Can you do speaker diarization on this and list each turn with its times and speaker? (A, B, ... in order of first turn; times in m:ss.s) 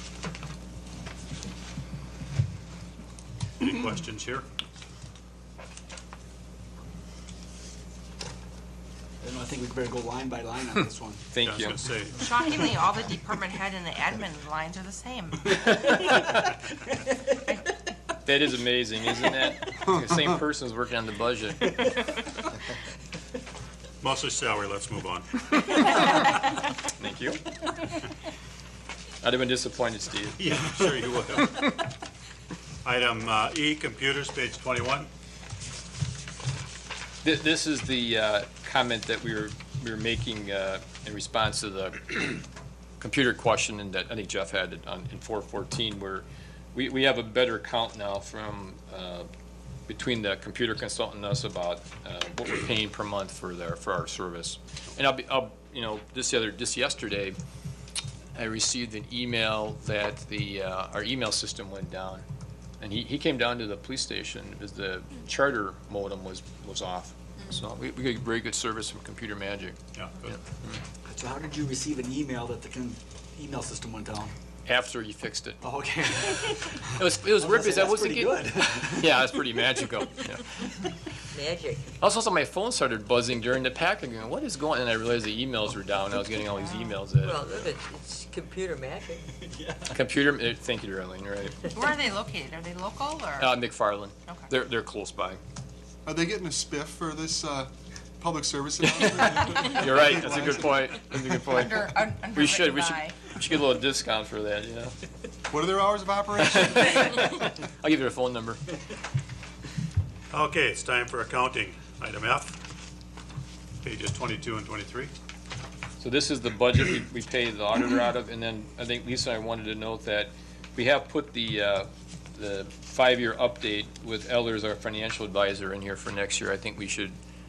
0:03.6-0:04.5 A
0:09.2-0:11.3 B
0:11.3-0:11.8 C
0:11.4-0:12.2 A
0:12.2-0:16.1 D
0:18.2-0:22.0 C
0:24.0-0:25.8 A
0:25.8-0:26.2 C
0:26.8-0:27.5 C
0:29.2-0:30.4 C
0:30.4-0:31.8 A
0:32.8-0:35.1 A
0:37.2-0:42.4 C
0:43.0-0:49.3 C
0:49.9-0:57.4 C
0:58.4-1:02.2 C
1:02.8-1:10.8 C
1:10.0-1:10.2 A
1:11.0-1:14.3 B
1:14.7-1:15.6 C
1:15.6-1:19.4 B
1:16.2-1:20.8 C
1:21.3-1:21.9 E
1:22.0-1:27.4 C
1:26.6-1:27.0 D
1:27.2-1:29.3 E
1:29.4-1:29.9 B
1:29.9-1:31.7 C
1:31.7-1:33.6 D
1:33.4-1:35.4 C
1:36.0-1:41.1 F
1:39.6-1:45.0 C
1:41.3-1:43.2 D
1:45.5-1:47.3 F
1:46.5-1:48.6 C
1:50.3-1:52.6 A
1:53.8-1:55.1 A
1:56.0-2:07.2 C